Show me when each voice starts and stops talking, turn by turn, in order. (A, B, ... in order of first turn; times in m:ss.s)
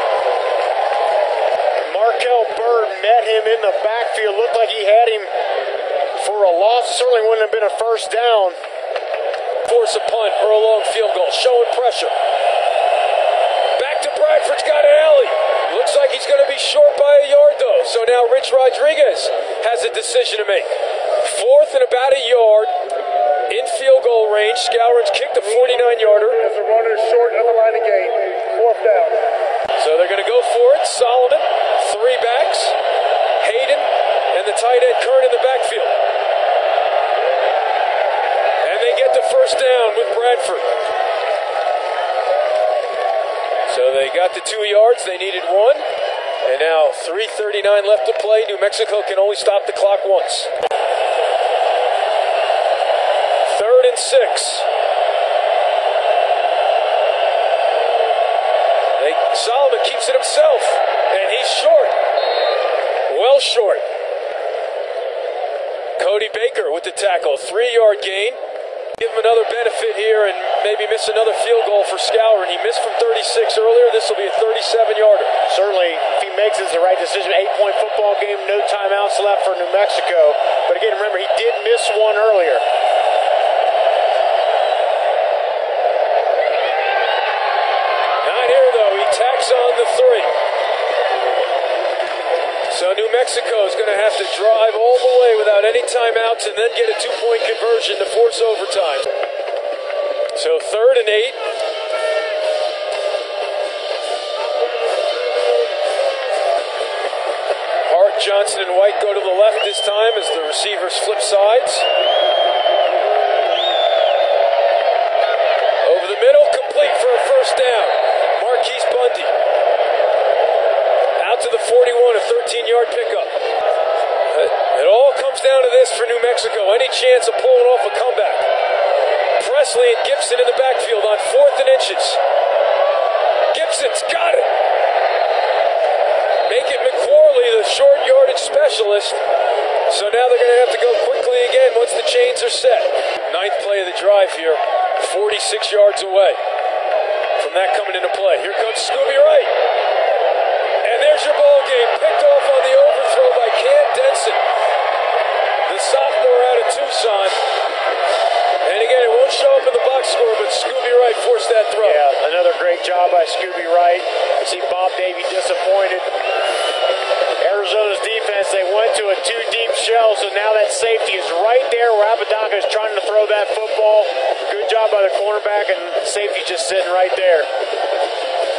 0:01.8-0:05.3 A
0:06.1-0:08.6 A
0:09.6-0:12.1 B
0:13.8-0:22.7 B
0:23.5-0:26.4 B
0:26.4-0:29.2 C
0:29.8-0:32.7 B
0:33.4-0:36.0 B
0:38.6-0:40.7 B
0:43.7-0:45.8 B
0:46.4-0:50.5 B
0:53.4-0:54.6 B
0:59.0-1:01.9 B
1:03.1-1:03.8 B
1:06.0-1:08.4 B
1:09.0-1:15.3 B
1:15.5-1:22.6 A
1:28.2-1:30.3 B
1:32.7-1:39.1 B
1:40.3-1:41.4 B
1:47.8-1:51.8 B
1:55.8-1:59.3 B
2:01.2-2:03.3 B
2:04.3-2:08.5 B
2:09.4-2:12.2 B
2:13.5-2:14.5 B
2:16.4-2:19.2 B
2:19.9-2:26.4 B
2:27.4-2:29.5 B
2:30.8-2:34.4 B
2:35.6-2:37.4 B
2:38.6-2:42.0 B
2:41.8-2:46.1 A
2:47.4-2:57.5 A